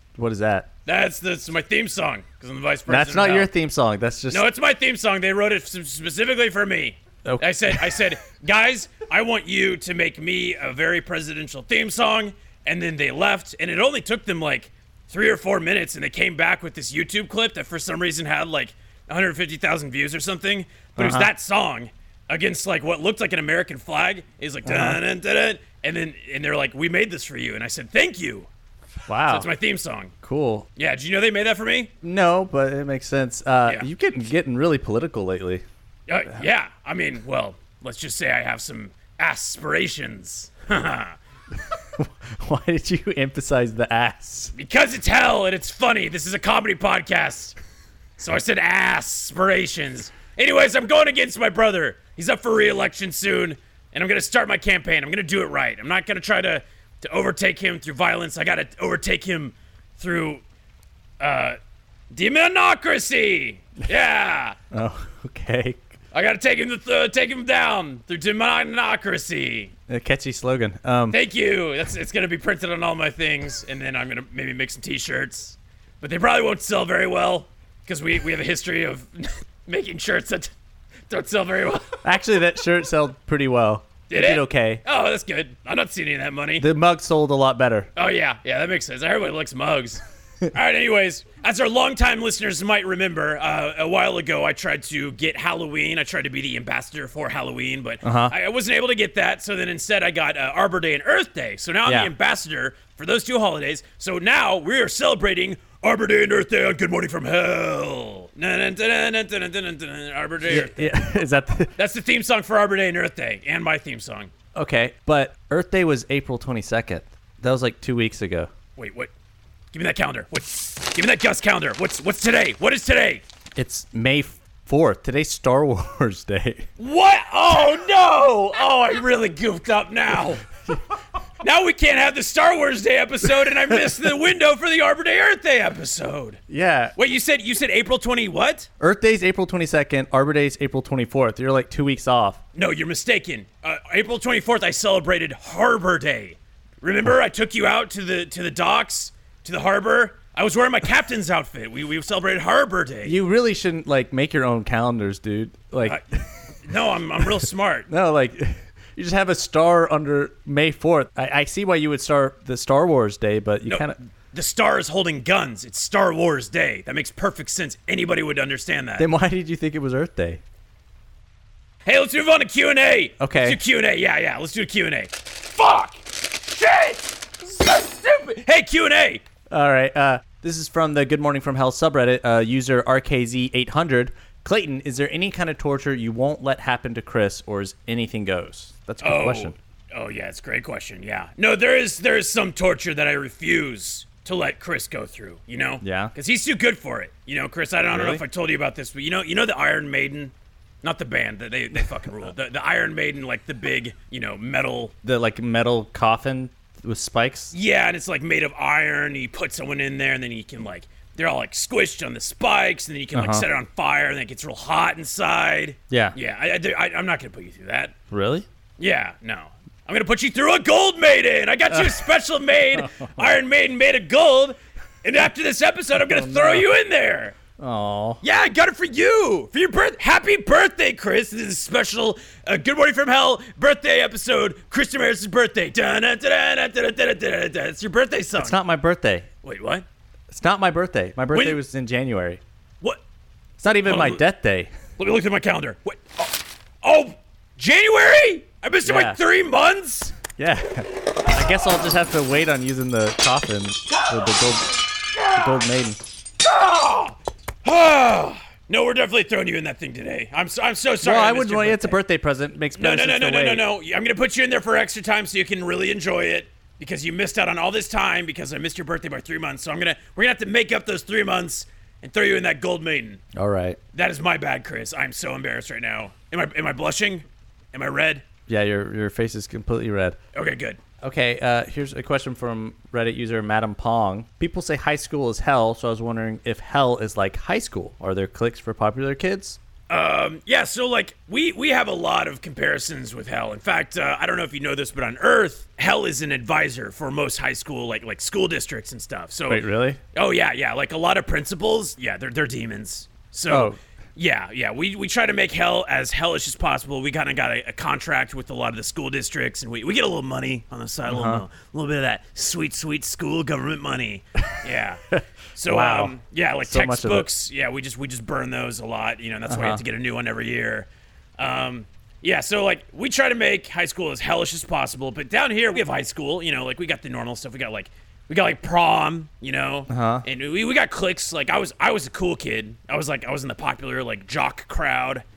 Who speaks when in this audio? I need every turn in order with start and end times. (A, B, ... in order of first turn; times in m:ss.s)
0:00.2-0:00.7 A
0:00.8-0:03.5 B
0:02.9-0:04.4 A
0:04.3-0:28.5 B
0:07.2-0:08.0 A
0:21.0-0:21.3 A
0:24.6-0:25.0 A
0:29.1-0:29.5 A
0:29.2-0:30.1 B
0:30.2-0:30.7 A
0:30.8-0:31.9 B
0:32.0-0:35.6 A
0:36.1-0:41.2 B
0:41.7-0:44.5 A
0:44.6-0:47.6 B
0:48.2-1:00.4 B
1:01.2-1:01.6 B
1:02.1-1:04.6 B
1:04.7-1:05.9 A
1:06.1-1:09.7 B
1:09.9-1:11.2 A
1:11.1-1:20.5 B
1:21.1-1:22.0 B
1:22.0-1:24.8 A
1:24.1-1:26.7 B
1:26.6-1:27.9 A
1:28.0-1:51.0 B
1:38.0-1:38.3 A
1:41.8-1:42.1 A
1:50.4-1:51.7 A
1:51.8-1:54.3 B
1:54.5-1:58.5 A
1:58.8-1:59.1 B
1:59.7-2:03.2 B
2:03.6-2:06.7 A
2:06.8-2:10.4 B
2:11.4-2:16.4 B
2:16.5-2:17.0 A
2:17.0-2:18.7 B
2:18.8-2:22.4 A
2:22.5-2:33.1 B
2:33.0-2:36.2 A
2:36.6-2:37.9 B
2:37.2-2:44.0 A
2:43.6-2:49.1 B
2:49.0-2:50.4 A
2:51.8-2:59.2 B
2:53.2-2:53.6 A
2:59.5-3:09.6 A
3:09.0-3:24.9 B
3:15.8-3:16.1 A
3:17.9-3:18.2 A
3:25.0-3:27.5 A
3:27.5-3:37.9 B
3:33.1-3:33.4 A
3:35.9-3:36.2 A
3:38.1-3:38.4 A
3:38.8-3:47.4 B
3:41.7-3:42.0 A
3:42.7-3:43.3 A
3:46.1-3:46.6 A
3:47.6-3:48.2 A
3:48.2-3:58.6 B
3:58.4-3:59.3 A
3:59.4-3:59.8 B
4:00.3-4:02.4 A
4:01.3-4:01.6 B
4:03.6-4:04.7 A
4:03.8-4:04.2 B
4:05.0-4:10.2 B
4:08.8-4:09.2 A
4:10.4-4:14.8 A
4:15.2-4:15.4 B
4:15.3-4:16.0 A
4:16.4-4:22.0 B
4:21.0-4:23.6 A
4:22.8-4:33.2 B
4:33.3-4:33.8 A
4:33.9-4:38.2 B
4:38.5-4:40.2 A
4:40.3-4:40.8 B
4:41.0-4:49.6 A
4:49.9-4:59.6 B
4:59.5-5:00.0 A
5:00.1-5:20.9 B
5:03.5-5:03.8 A
5:11.1-5:11.4 A
5:15.1-5:17.3 A
5:19.5-5:19.8 A
5:21.4-5:35.2 B
5:29.9-5:30.2 A